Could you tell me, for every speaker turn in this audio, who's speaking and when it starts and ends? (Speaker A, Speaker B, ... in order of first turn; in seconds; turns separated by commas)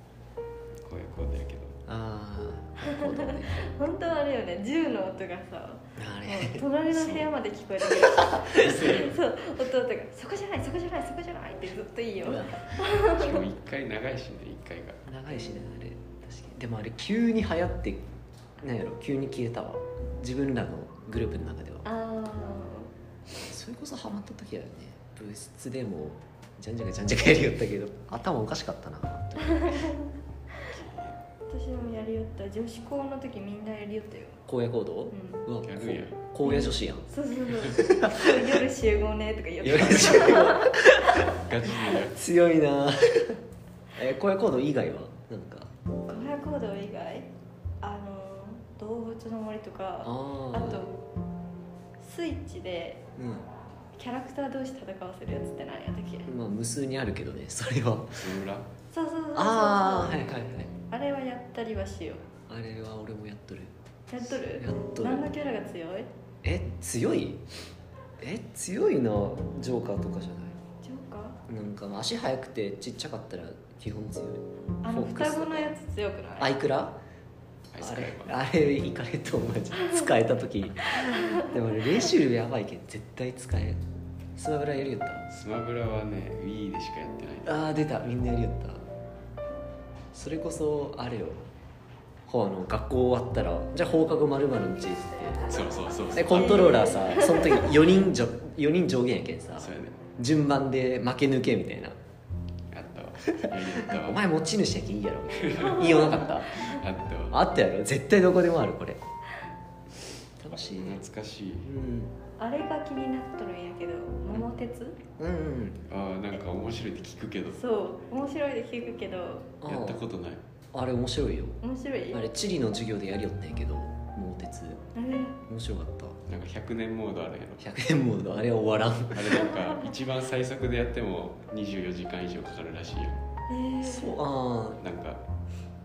Speaker A: 0.8-1.8, Speaker B: 1.9-3.7, Speaker C: 2.8-13.4, Speaker B: 6.0-6.7, Speaker A: 6.9-7.3, Speaker B: 7.8-9.0, Speaker A: 8.6-9.2, Speaker B: 12.2-12.7, Speaker A: 13.0-15.0, Speaker B: 15.1-18.1, Speaker B: 18.6-21.9, Speaker C: 21.8-22.9, Speaker B: 23.4-30.0, Speaker C: 29.4-30.1, Speaker A: 30.7-31.2, Speaker C: 31.5-34.4, Speaker B: 34.5-37.0, Speaker C: 35.1-35.5, Speaker A: 35.6-36.2, Speaker C: 36.4-40.9, Speaker B: 37.6-38.5, Speaker B: 39.6-41.3, Speaker A: 39.6-40.4, Speaker A: 41.2-42.2, Speaker B: 41.9-43.4, Speaker B: 44.0-45.7, Speaker C: 46.1-47.3, Speaker C: 47.8-51.0, Speaker B: 50.0-50.9, Speaker C: 52.0-53.0, Speaker B: 53.2-53.5, Speaker C: 54.0-56.3, Speaker B: 56.3-58.3, Speaker A: 58.1-58.7, Speaker C: 58.9-60.3, Speaker B: 59.4-60.7, Speaker C: 60.9-62.2, Speaker B: 62.5-65.3, Speaker C: 64.1-66.1, Speaker B: 66.4-67.4, Speaker B: 68.2-70.6, Speaker C: 70.8-71.4, Speaker B: 71.5-75.7, Speaker C: 74.8-76.6, Speaker B: 76.4-77.0, Speaker A: 77.7-78.4, Speaker B: 77.8-83.8, Speaker C: 81.2-81.4, Speaker B: 84.4-85.3, Speaker A: 85.3-87.6, Speaker B: 87.5-88.8, Speaker B: 90.1-91.5, Speaker B: 92.3-95.5, Speaker A: 95.4-96.9, Speaker B: 96.1-102.0, Speaker C: 96.4-97.8, Speaker A: 99.6-100.0, Speaker A: 102.7-104.2, Speaker B: 103.3-106.7, Speaker A: 105.3-107.4, Speaker C: 105.8-106.2, Speaker B: 107.3-109.0, Speaker B: 110.4-111.0, Speaker A: 110.5-111.7, Speaker B: 111.6-112.2, Speaker C: 112.4-115.0, Speaker B: 115.2-115.8, Speaker A: 115.9-117.6, Speaker C: 117.5-119.5, Speaker B: 119.6-120.1, Speaker A: 119.6-120.4, Speaker B: 120.7-121.6, Speaker C: 121.6-122.3, Speaker B: 122.1-124.8, Speaker C: 125.0-125.4, Speaker B: 125.5-126.2, Speaker A: 126.3-127.6, Speaker B: 127.6-129.5, Speaker A: 129.1-133.2, Speaker C: 133.5-134.2, Speaker B: 133.8-134.8, Speaker A: 134.8-135.2